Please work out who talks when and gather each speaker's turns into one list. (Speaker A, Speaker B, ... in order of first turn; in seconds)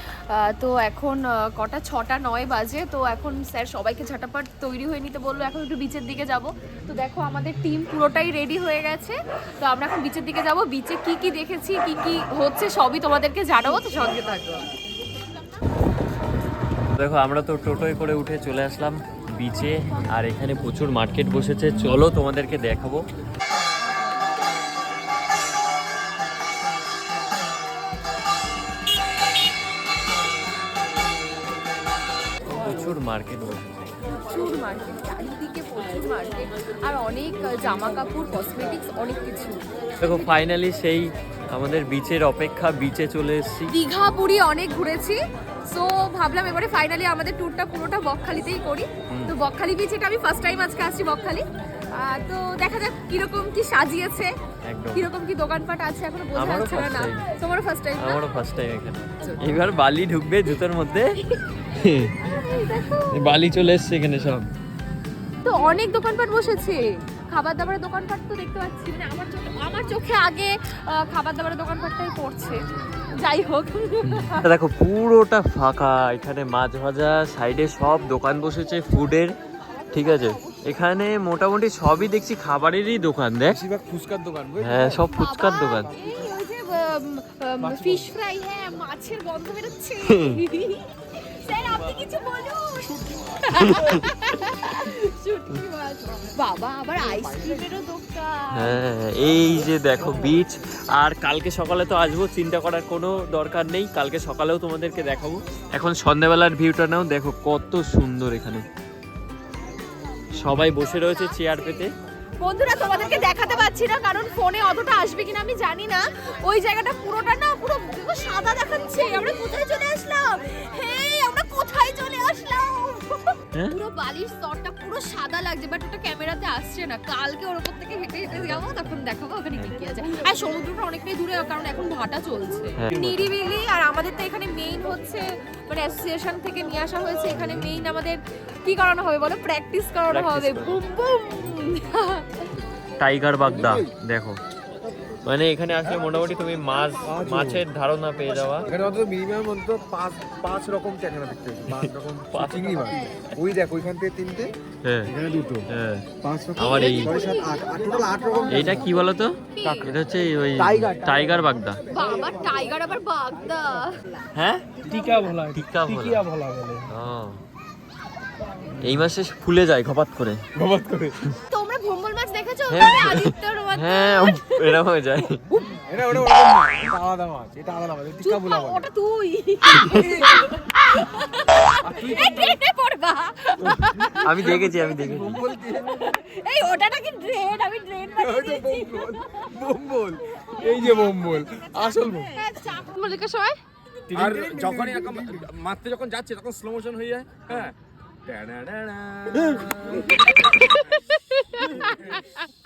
Speaker A: 0.3-14.7, 34.1-40.1, 43.7-54.3, 54.9-58.2, 62.0-63.2, 65.4-74.5, 79.9-80.4, 85.1-98.8, 112.4-142.5, 156.6-158.9, 159.5-160.0, 161.9-164.0, 171.5-174.8, 178.2-184.3, 185.8-189.5, 190.4-191.1, 192.0-193.6, 200.0-202.4
Speaker B: 17.0-23.0, 32.5-34.0, 40.0-43.7, 54.7-55.1, 56.4-57.2, 58.0-61.2, 61.8-62.1, 63.1-64.5, 74.0-79.3, 79.9-83.6, 84.6-85.9, 90.1-90.4, 98.5-108.7, 110.4-111.9, 132.8-133.3, 140.1-140.8, 143.0-144.4, 145.2-148.7, 151.7-153.3, 154.8-155.1, 155.7-157.1, 158.5-161.8, 164.3-166.3, 166.9-167.4, 168.8-170.4, 172.7-175.4, 176.1-176.7, 179.8-180.0, 184.2-185.5
Speaker C: 83.5-85.1, 87.6-88.1, 97.1-97.7, 143.5-143.9, 147.1-147.6, 148.7-154.5, 155.1-155.7, 156.2-158.9, 160.6-161.4, 164.8-166.9, 170.6-171.2, 175.7-178.9, 179.9-180.5, 181.8-182.6, 183.7-186.1, 188.2-192.3, 194.1-195.5, 199.5-199.7
Speaker D: 194.2-197.5, 198.3-199.7